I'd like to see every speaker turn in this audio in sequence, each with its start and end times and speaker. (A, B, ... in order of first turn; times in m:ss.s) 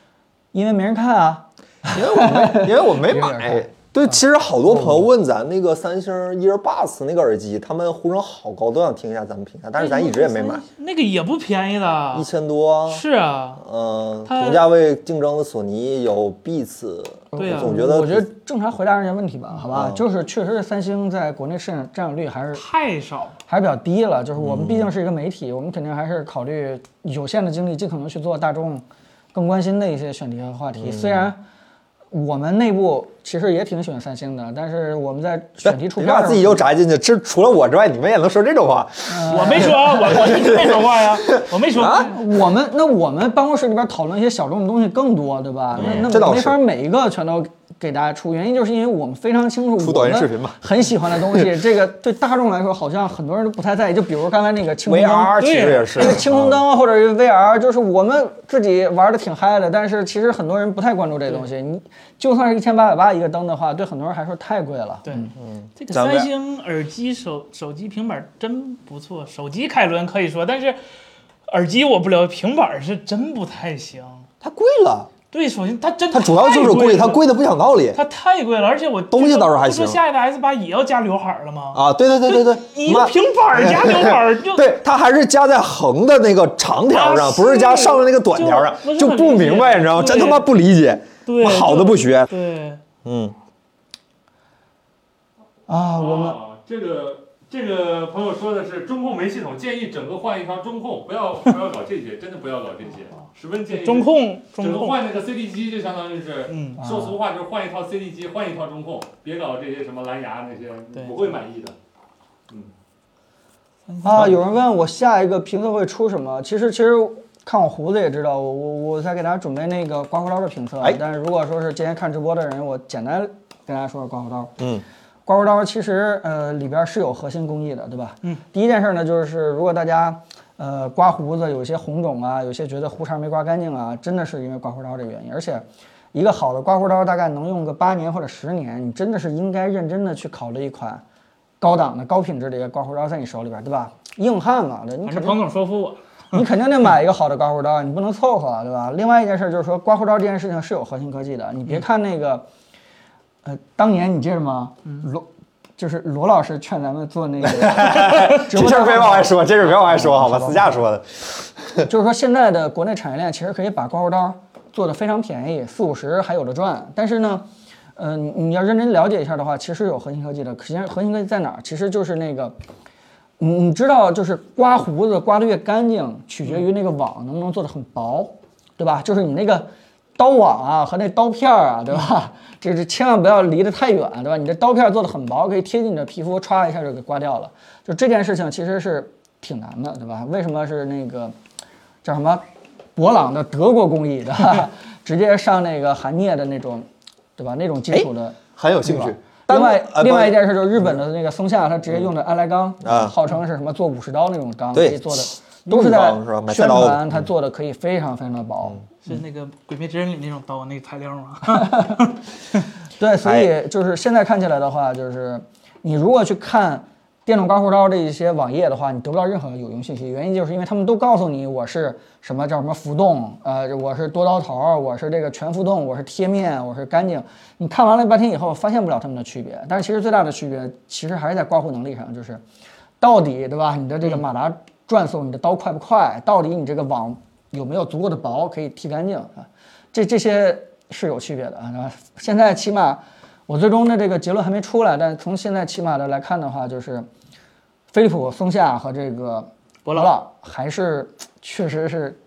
0:00.5-0:05.1 A
0:01.9-0:10.6 B
0:09.8-0:12.3 C
0:12.1-0:13.0 B
0:12.9-0:13.6 C
0:13.6-0:18.3 B
0:14.2-0:14.7 C
0:17.3-0:22.6 A
0:17.4-0:17.8 C
0:19.7-0:20.0 B
0:22.5-0:23.4 C
0:23.5-0:31.4 A
0:24.4-0:24.9 B
0:30.8-0:31.3 B
0:32.1-0:36.7 A
0:35.6-0:42.1 B
0:39.1-0:40.2 A
0:39.3-0:42.2 C
0:41.9-1:05.3 A
0:45.8-0:46.6 B
0:45.8-0:46.1 C
0:49.8-0:51.5 B
0:54.8-0:56.6 B
0:55.4-0:56.2 C
1:05.0-1:10.8 C
1:05.4-1:06.3 B
1:11.5-1:14.3 C
1:14.4-1:15.1 B
1:15.3-1:17.2 C
1:16.1-1:18.0 B
1:17.9-1:24.7 C
1:19.1-1:20.0 B
1:21.7-1:32.3 B
1:26.9-1:30.5 C
1:31.2-1:32.8 C
1:33.0-1:33.4 B
1:35.7-1:36.4 A
1:36.0-1:51.8 D
1:43.7-1:45.0 C
1:46.5-1:46.8 C
1:46.8-1:47.2 A
1:50.9-1:51.3 C
1:53.9-1:54.4 C
1:54.0-2:04.6 A
2:04.6-2:04.8 B
2:05.3-2:21.0 A
2:21.6-2:25.4 A
2:25.0-2:26.3 C
2:26.3-2:32.4 A
2:33.4-2:40.8 A
2:37.4-2:41.9 B
2:41.8-2:52.6 A
2:53.4-3:11.4 A
3:12.0-3:12.4 A
3:13.0-3:28.8 A
3:17.9-3:20.4 B
3:22.8-3:23.1 B
3:24.7-3:27.2 B
3:29.0-3:32.2 C
3:31.5-3:32.0 A
3:33.0-3:52.4 A
3:33.2-3:33.5 B
3:53.0-4:07.1 A
4:07.9-4:12.2 A
4:09.8-4:10.1 C